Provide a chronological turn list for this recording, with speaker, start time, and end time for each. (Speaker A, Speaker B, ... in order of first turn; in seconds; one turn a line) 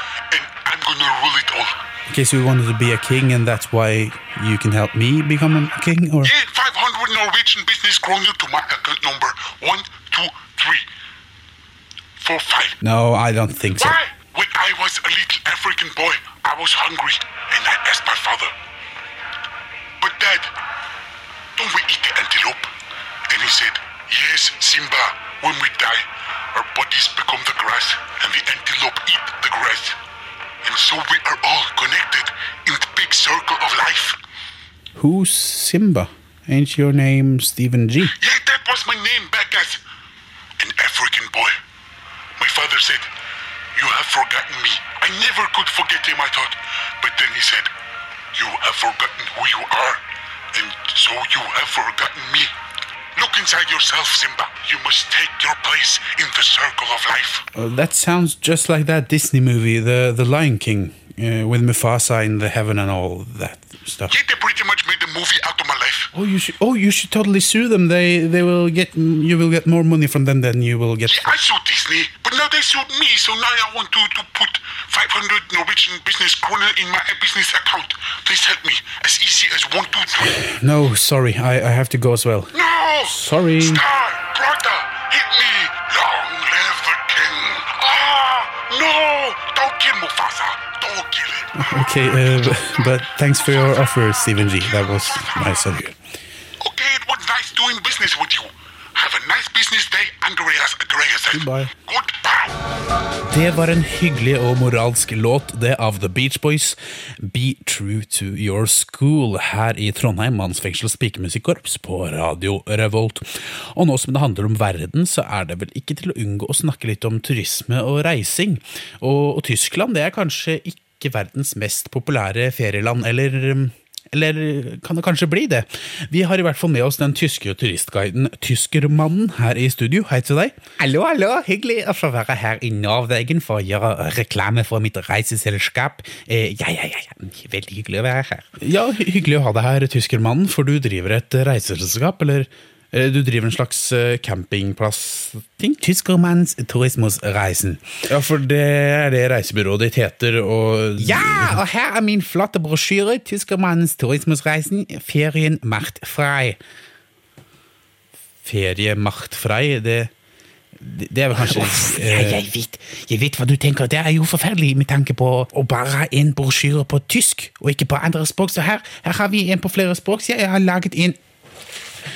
Speaker A: 0.3-1.8
Speaker B: 2.1-6.3
Speaker A: 6.2-10.8
Speaker A: 12.2-12.8
Speaker B: 12.8-14.0
Speaker A: 13.8-18.5
Speaker A: 20.0-20.5
Speaker A: 21.6-22.7
Speaker A: 23.3-30.0
Speaker A: 30.6-34.2
Speaker B: 35.0-36.7
Speaker C: 36.5-38.1
Speaker B: 37.5-38.0
Speaker A: 38.1-39.8
Speaker A: 40.6-41.5
Speaker A: 42.4-43.1
Speaker A: 43.7-47.7
Speaker A: 48.3-50.0
Speaker A: 50.5-52.5
Speaker A: 53.1-57.4
Speaker B: 57.5-64.1
Speaker A: 64.1-66.1
Speaker B: 66.1-71.2
Speaker A: 71.1-80.4
Speaker B: 80.2-83.8
Speaker A: 82.5-91.5
Speaker B: 91.5-95.9
Speaker A: 94.6-95.6
Speaker A: 96.6-102.5
Speaker B: 101.3-101.7
Speaker B: 103.3-123.3
Speaker C: 122.5-125.6
Speaker B: 126.1-130.6
Speaker C: 130.8-138.6
Speaker B: 138.6-145.5
Speaker C: 145.5-148.0
Speaker B: 148.1-151.6
Speaker C: 151.0-156.6
Speaker B: 158.4-160.1
Speaker B: 160.9-162.4
Speaker C: 161.3-171.2